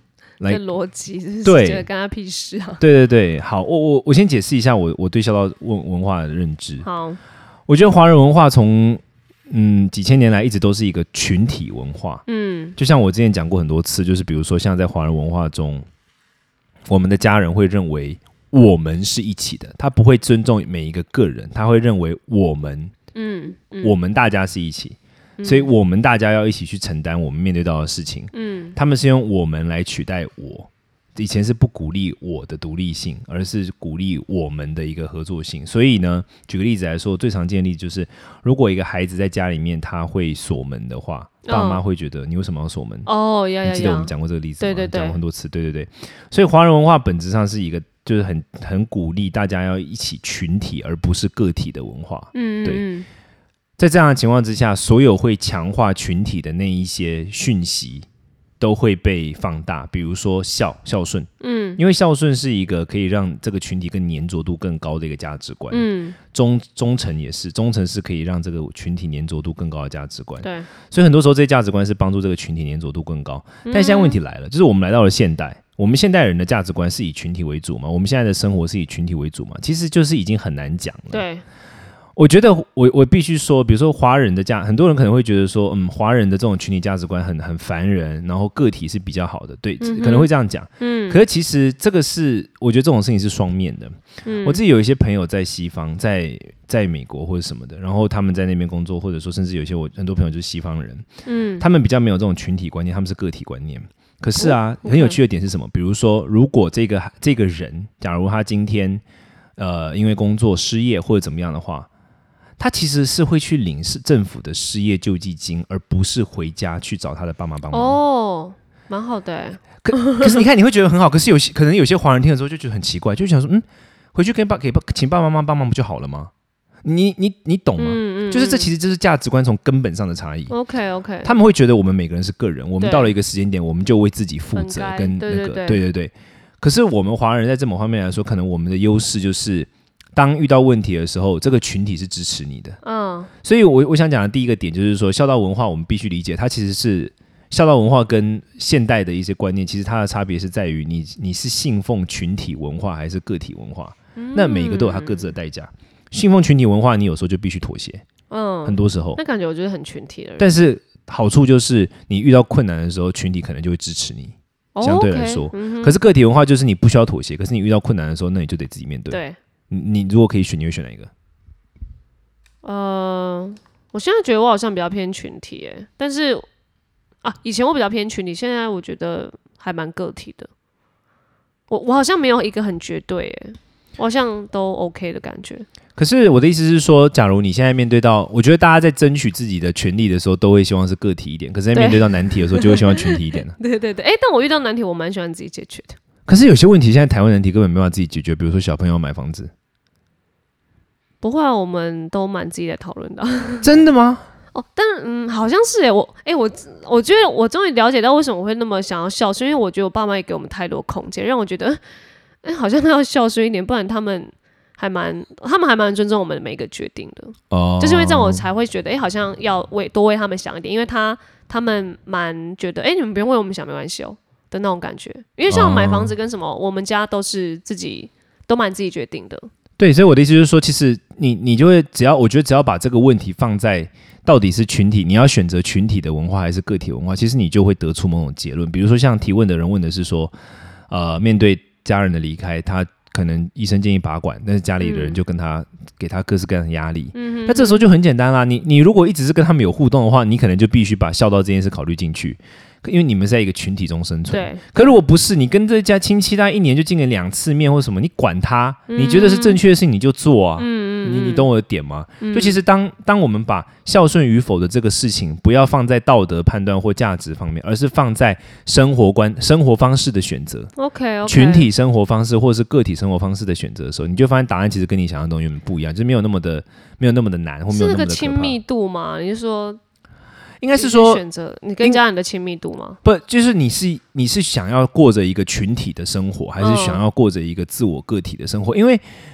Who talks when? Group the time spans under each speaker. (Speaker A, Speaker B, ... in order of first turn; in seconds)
Speaker A: 0.5-2.8, 6.8-7.2, 12.3-12.8, 23.1-23.9, 25.4-25.7, 28.3-28.8, 41.5-41.8, 43.1-45.2, 52.3-53.1, 61.4-61.8, 65.7-66.2, 70.4-70.7, 73.7-74.2, 81.1-81.4, 89.8-91.2, 94.2-94.6, 101.2-101.6, 104.4-105.2, 117.7-120.4, 127.8-128.7, 130.5-131.3, 132.8-133.1, 134.5-135.8, 142.8-143.3, 154.2-155.3, 158.3-160.5, 164.8-166.0, 169.1-169.4, 172.6-176.5, 177.2-180.5, 181.7-185.7, 191.7-196.0, 201.2-203.7, 204.5-211.8, 212.4-229.5, 244.8-245.2, 247.1-247.8, 254.3-254.7, 258.9-259.6, 260.6-261.5, 262.2-262.6, 270.8-271.7, 277.7-279.8, 280.7-283.0, 286.6-287.0
Speaker B: 1.4-1.9, 2.8-6.9, 7.7-12.2, 12.8-15.9, 16.9-22.9, 23.8-43.1, 43.6-52.9, 53.8-58.1, 58.6-81.2, 82.2-101.1, 101.6-109.0, 109.6-111.9, 112.6-118.0, 119.8-126.3, 126.8-130.5, 131.2-142.8, 143.4-158.0, 158.7-159.2, 160.4-171.1, 186.0-193.6, 196.3-199.5, 203.6-204.2, 217.5-218.4, 225.5-226.1, 229.8-240.3, 240.9-270.7, 271.3-278.6, 280.6-281.2, 283.0-289.0